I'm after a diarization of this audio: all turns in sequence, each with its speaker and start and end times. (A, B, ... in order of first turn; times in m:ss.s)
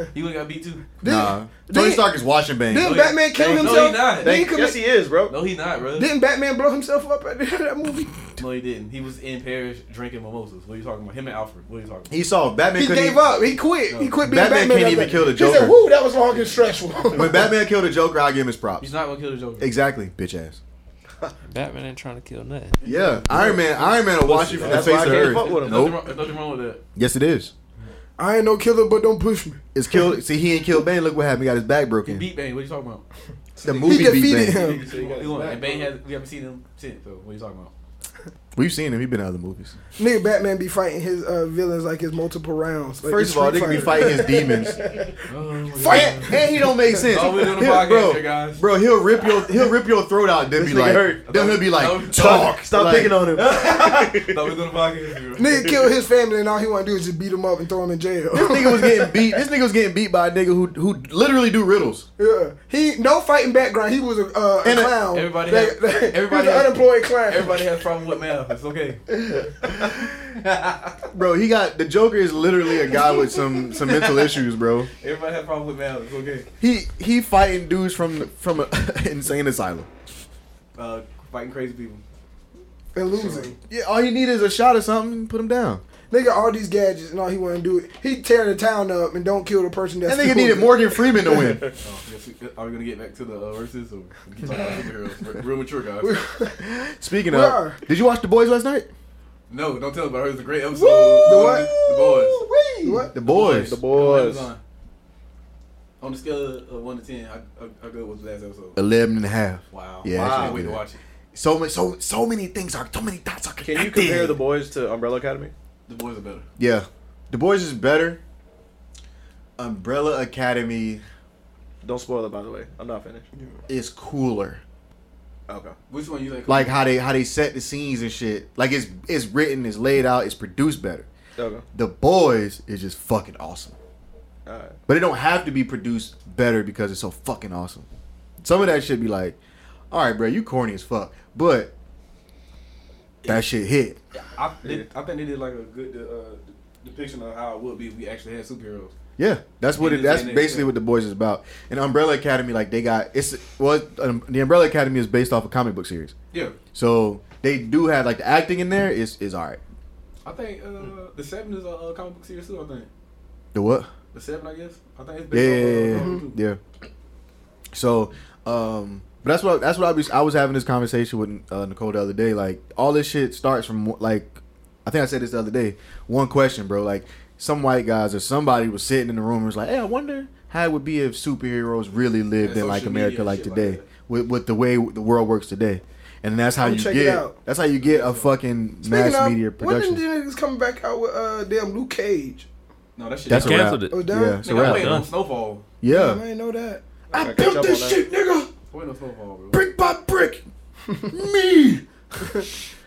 0:00.1-0:00.8 A
0:01.0-0:02.1 B
0:01.0-0:03.0 C
0:02.7-0:04.8 B
0:02.8-0:04.4 A
0:03.3-0:05.4 D
0:05.3-0:06.1 A
0:06.0-0:08.2 B
0:08.4-0:12.1 A
0:12.1-0:13.3 C
0:12.8-0:17.5 B
0:13.9-0:14.2 A
0:14.2-0:15.8 C
0:16.3-0:16.7 A
0:17.1-0:18.9 C
0:18.8-0:19.7 A
0:19.6-0:20.6 C
0:21.5-0:22.8 E
0:22.8-0:26.8 A
0:22.8-0:26.0 C
0:23.3-0:23.6 B
0:24.6-0:25.9 D
0:27.0-0:27.5 C
0:28.2-0:29.6 B
0:29.7-0:32.3 C
0:32.0-0:33.0 A
0:33.6-0:37.7 A
0:33.6-0:34.6 C
0:33.8-0:34.8 B
0:34.6-0:35.9 D
0:38.6-0:39.8 C
0:40.0-0:45.1 B
0:43.0-0:44.8 C
0:45.3-0:46.4 A
0:45.8-0:46.4 B
0:45.8-0:53.2 C
0:47.0-0:48.6 A
0:50.6-0:51.5 D
0:51.3-0:52.6 A
0:52.1-0:54.5 D
0:53.4-0:55.6 A
0:55.4-0:59.2 B
0:55.6-0:55.9 D
0:58.3-1:02.1 C
1:02.2-1:07.6 B
1:04.6-1:05.0 C
1:05.1-1:09.0 A
1:09.6-1:11.0 A
1:11.1-1:14.9 C
1:15.0-1:16.5 A
1:16.6-1:19.9 C
1:20.8-1:22.0 A
1:23.0-1:23.6 B
1:23.2-1:23.5 A
1:23.7-1:25.8 C
1:26.1-1:31.4 B
1:30.1-1:31.7 C
1:31.4-1:31.7 D
1:31.8-1:36.2 A
1:36.0-1:36.6 B
1:36.6-1:38.9 C
1:37.3-1:37.8 B
1:39.5-1:42.4 A
1:40.8-1:43.8 C
1:41.2-1:41.7 B
1:42.8-1:43.1 B
1:43.2-1:44.6 A
1:43.4-1:44.5 D
1:46.0-1:48.8 A
1:48.8-1:50.8 C
1:49.7-1:51.0 A
1:50.1-1:50.6 D
1:51.3-1:54.4 C
1:53.6-1:55.5 D
1:55.9-1:56.4 A
1:56.6-1:58.2 C
1:59.6-2:01.0 C
2:01.8-2:03.3 D
2:03.7-2:04.6 C
2:05.5-2:05.8 D
2:05.9-2:06.8 A
2:06.5-2:11.1 C
2:11.4-2:11.6 D
2:11.7-2:13.8 C
2:14.5-2:14.8 D
2:14.9-2:17.9 C
2:18.4-2:19.4 C
2:19.9-2:21.7 C
2:23.2-2:24.0 C
2:24.1-2:28.9 A
2:29.2-2:36.1 C
2:29.8-2:30.7 A
2:36.3-2:36.6 A
2:36.7-2:39.6 C
2:40.2-2:42.9 A
2:43.5-2:43.9 C
2:44.1-2:46.4 A
2:45.3-2:46.6 C
2:46.0-2:46.2 B
2:47.7-3:10.0 C
3:02.4-3:03.9 A
3:06.6-3:07.4 B
3:07.8-3:08.3 A
3:08.8-3:12.5 B
3:13.0-3:13.8 A
3:13.3-3:15.1 E
3:13.3-3:15.0 C
3:13.9-3:14.4 B
3:14.4-3:15.7 A
3:15.8-3:16.2 C
3:15.9-3:16.8 B
3:17.1-3:18.0 D
3:17.1-3:18.5 C
3:18.7-3:19.6 A
3:19.5-3:20.5 C
3:21.1-3:22.5 C